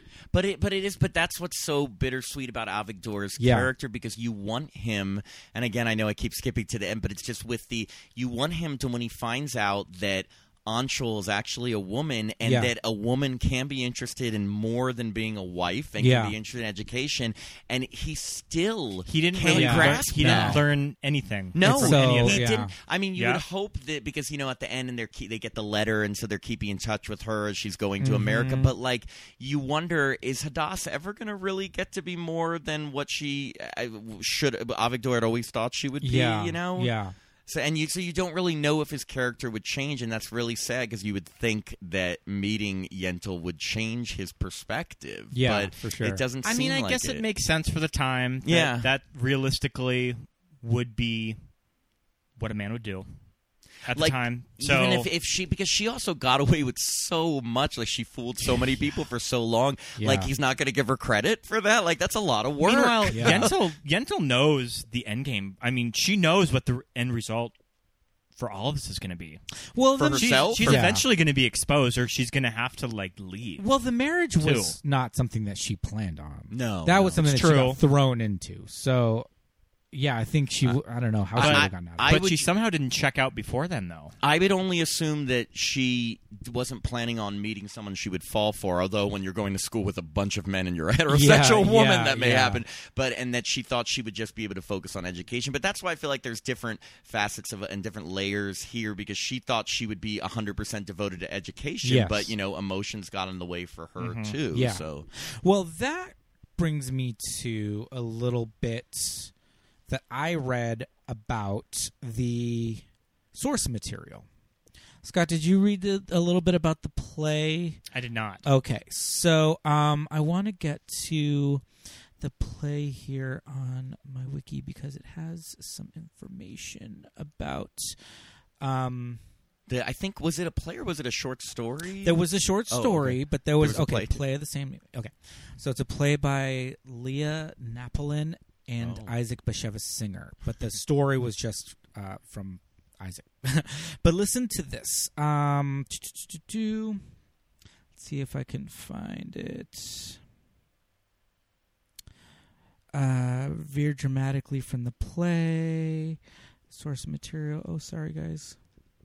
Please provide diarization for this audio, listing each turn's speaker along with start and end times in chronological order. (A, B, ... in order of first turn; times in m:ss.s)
0:00.3-0:20.6 A
0:03.4-0:03.7 B
0:12.4-0:12.7 B
0:16.0-0:16.3 B
0:19.0-0:22.4 C
0:19.5-0:20.6 B
0:21.5-0:36.9 A
0:21.6-0:22.7 B
0:23.2-0:23.4 C
0:28.0-0:28.7 B
0:36.0-0:37.1 B
0:37.5-0:47.2 A
0:45.3-0:46.2 B
0:46.4-0:51.4 C
0:48.4-0:48.9 A
0:52.4-0:53.1 C
0:53.8-0:55.1 C
0:53.9-1:03.5 A
1:00.0-1:00.3 B
1:02.6-1:07.5 C
1:03.1-1:03.5 B
1:08.4-1:09.4 C
1:09.7-1:11.0 B
1:10.0-1:10.8 A
1:10.1-1:13.6 C
1:13.6-1:19.3 B
1:14.4-1:14.8 C
1:16.5-1:17.2 A
1:17.2-1:17.8 C
1:19.9-1:22.2 B
1:21.3-1:22.5 A
1:21.4-1:24.1 C
1:24.2-1:45.0 A
1:31.1-1:32.6 B
1:41.8-1:42.3 B
1:44.0-1:44.3 C
1:44.5-1:49.3 B
1:49.9-1:54.2 B
1:55.0-1:57.8 B
1:57.9-1:58.4 C
1:58.4-2:01.6 B
2:02.2-2:08.0 B
2:08.6-2:09.2 B
2:09.7-2:14.2 A
2:12.0-2:27.0 B
2:18.8-2:19.1 A
2:27.9-2:30.2 B
2:32.9-2:36.2 B
2:36.7-2:38.6 B